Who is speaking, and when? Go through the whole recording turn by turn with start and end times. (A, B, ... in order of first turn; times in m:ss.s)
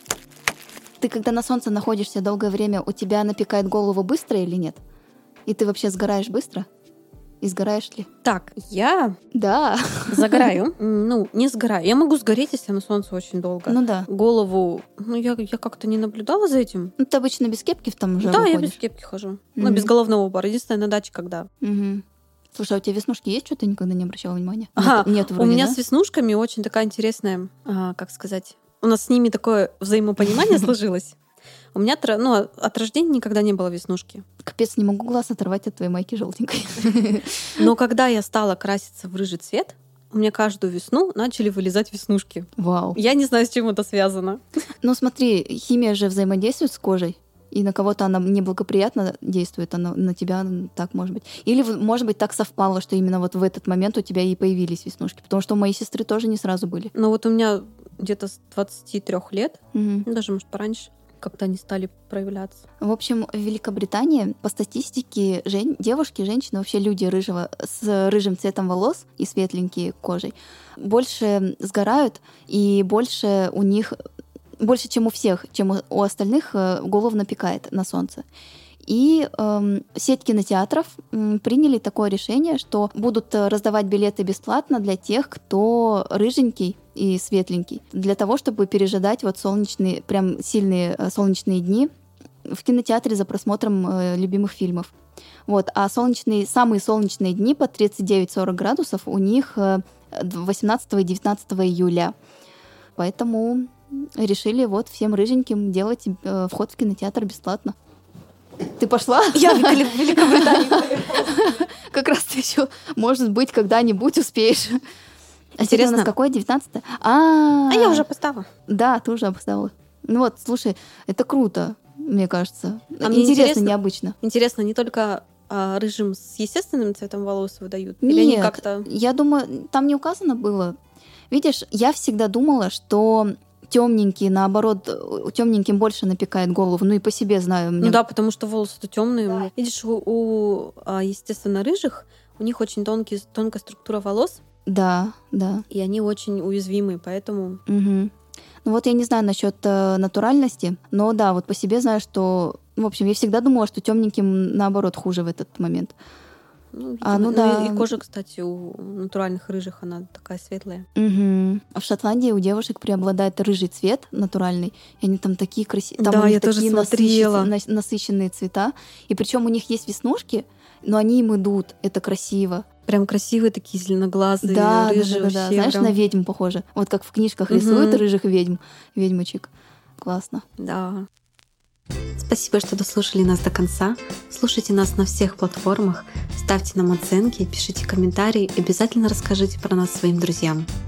0:01.0-0:04.8 A
0:05.5-0:06.6 A
0:07.4-0:08.1 A
0:08.2-0:09.2 B
0:09.3-0:10.5 A
0:10.1-0:16.9 B
0:13.7-0:14.1 A
0:17.0-0:18.8 A
0:18.2-0:21.5 B
0:19.6-0:19.9 A
0:21.6-0:22.0 A
0:22.5-0:25.8 A
0:24.8-0:31.2 B
0:31.7-0:34.2 B
0:34.4-0:37.6 A
0:37.6-0:44.4 B
0:42.6-0:43.0 A
0:44.8-0:56.9 A
0:56.9-1:02.6 B
0:59.7-1:00.0 A
1:02.8-1:14.0 A
1:14.6-1:18.2 A
1:18.8-1:31.9 A
1:32.4-1:34.9 A
1:35.5-1:42.1 A
1:43.0-1:47.7 A
1:48.8-1:54.8 A
1:49.3-1:51.7 B
1:55.6-1:58.0 A
1:55.6-1:56.1 B
1:57.7-1:58.5 B
1:58.7-2:04.2 A
2:03.0-2:08.9 B
2:08.0-2:10.8 A
2:11.3-2:18.0 A
2:17.8-2:24.4 B
2:24.6-2:25.6 A
2:25.7-2:27.6 B
2:27.7-2:28.1 A
2:28.6-2:35.9 A
2:36.7-2:40.8 B
2:37.0-2:37.9 A
2:41.0-2:52.6 A
2:46.0-2:47.5 B
2:52.9-2:56.0 B
2:54.4-3:00.4 A
2:57.5-2:58.0 B
3:00.6-3:01.1 B
3:02.2-3:10.7 B